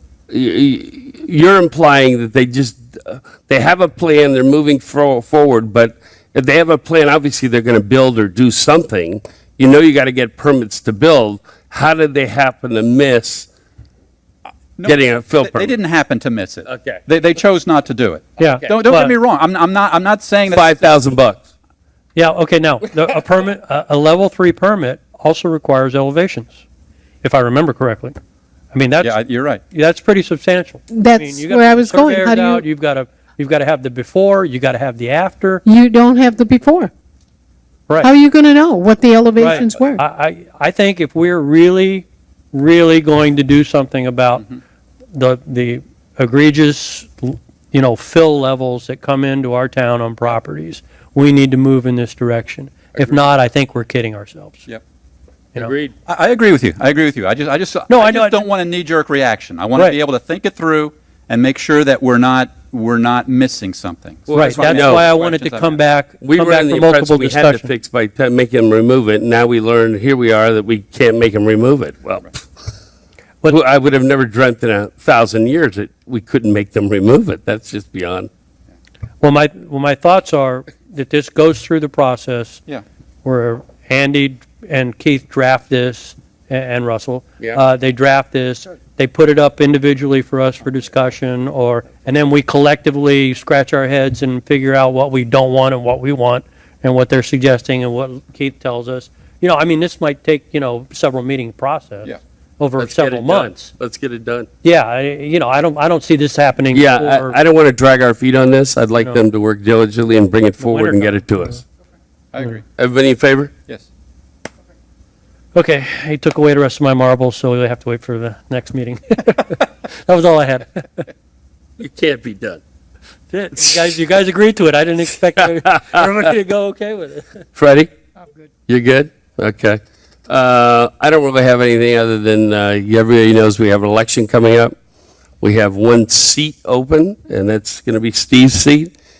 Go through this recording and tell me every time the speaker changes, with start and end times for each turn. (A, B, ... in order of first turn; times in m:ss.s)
0:00.3-0:13.5 A
0:14.8-0:20.9 B
0:14.8-0:15.7 A
0:16.6-0:17.0 A
0:18.4-0:19.1 C
0:20.4-0:21.5 A
0:22.1-0:26.6 C
0:27.2-0:28.1 C
0:28.7-0:29.2 C
0:29.0-0:29.6 B
0:29.7-0:35.6 C
0:30.9-0:32.6 D
0:35.6-0:36.9 D
0:38.0-0:40.0 D
0:39.4-0:44.5 C
0:45.1-0:54.6 C
0:52.9-0:53.2 A
0:55.5-0:55.9 A
0:56.0-1:05.8 B
0:57.9-0:58.4 C
1:04.3-1:05.1 A
1:04.3-1:07.7 C
1:06.2-1:12.3 A
1:13.5-1:18.3 A
1:19.2-1:22.6 C
1:23.2-1:43.7 C
1:42.8-1:44.5 A
1:44.6-1:47.4 C
1:46.7-1:51.6 A
1:50.6-1:51.5 C
1:52.3-1:52.6 B
1:52.8-1:53.5 A
1:55.5-2:01.0 C
2:01.8-2:02.6 A
2:03.3-2:07.4 C
2:07.6-2:07.9 A
2:08.7-2:14.7 A
2:15.4-2:18.9 A